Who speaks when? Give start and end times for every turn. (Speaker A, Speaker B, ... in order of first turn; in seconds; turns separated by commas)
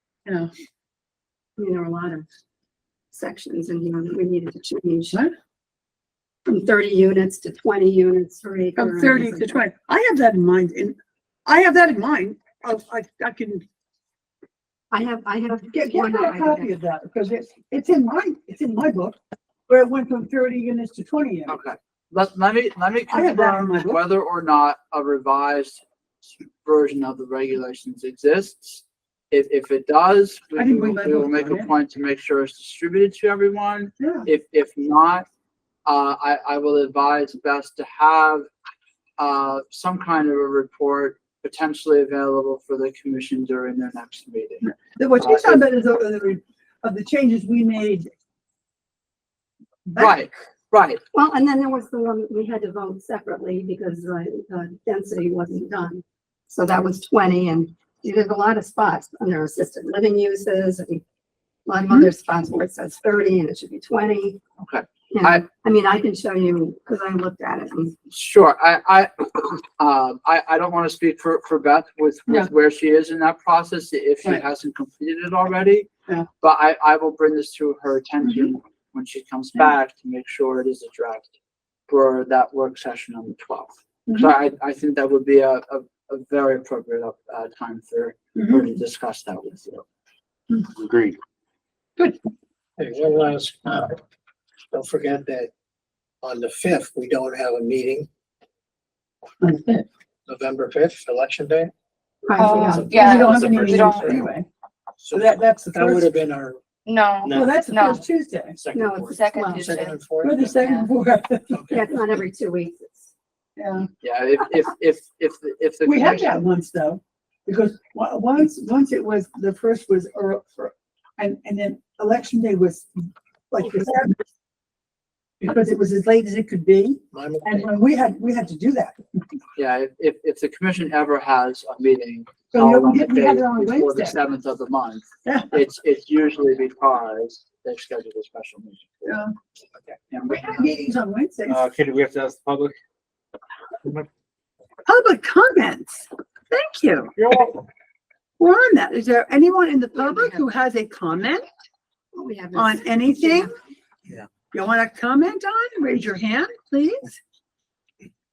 Speaker A: 1.6-2.3, Speaker A: 3.1-5.2, Speaker A: 6.5-9.6, Speaker B: 8.8-13.7, Speaker A: 14.9-16.8, Speaker B: 15.7-21.6, Speaker C: 21.5-25.8, Speaker B: 23.1-24.0, Speaker C: 26.6-35.2, Speaker B: 30.5-31.7, Speaker B: 34.0-34.2, Speaker C: 35.9-38.5, Speaker C: 39.2-45.7, Speaker B: 44.6-48.1, Speaker B: 49.9-50.2, Speaker C: 50.0-51.0, Speaker A: 51.1-61.0, Speaker A: 61.7-64.4, Speaker C: 64.6-65.4, Speaker A: 65.1-68.0, Speaker C: 68.1-81.3, Speaker B: 78.2-78.5, Speaker C: 81.9-89.8, Speaker B: 84.1-84.3, Speaker B: 88.3-88.7, Speaker D: 90.8-91.2, Speaker E: 92.8-94.0, Speaker E: 94.7-95.5, Speaker E: 96.2-98.1, Speaker B: 99.4-99.8, Speaker E: 100.3-101.7, Speaker A: 102.2-103.0, Speaker F: 102.3-104.2, Speaker B: 102.4-104.5, Speaker E: 102.7-104.3, Speaker E: 105.0-106.6, Speaker B: 105.1-106.1, Speaker F: 106.8-108.0, Speaker E: 107.2-108.0, Speaker B: 107.3-108.6, Speaker E: 108.5-110.7, Speaker A: 108.7-109.5, Speaker F: 109.0-110.0, Speaker B: 110.2-111.7, Speaker F: 110.5-110.9, Speaker E: 111.5-111.9, Speaker A: 111.7-113.1, Speaker B: 113.6-113.9, Speaker C: 114.0-116.5, Speaker B: 115.8-124.1, Speaker B: 125.4-129.0, Speaker E: 127.1-127.8, Speaker C: 129.6-138.9, Speaker B: 132.5-134.2, Speaker B: 135.2-135.6, Speaker B: 139.0-139.3, Speaker C: 140.1-140.8, Speaker B: 140.2-141.6, Speaker D: 141.5-142.8, Speaker B: 144.8-147.1, Speaker D: 147.2-147.6, Speaker B: 148.4-151.5, Speaker A: 152.1-153.5, Speaker B: 152.5-153.5, Speaker B: 154.5-157.2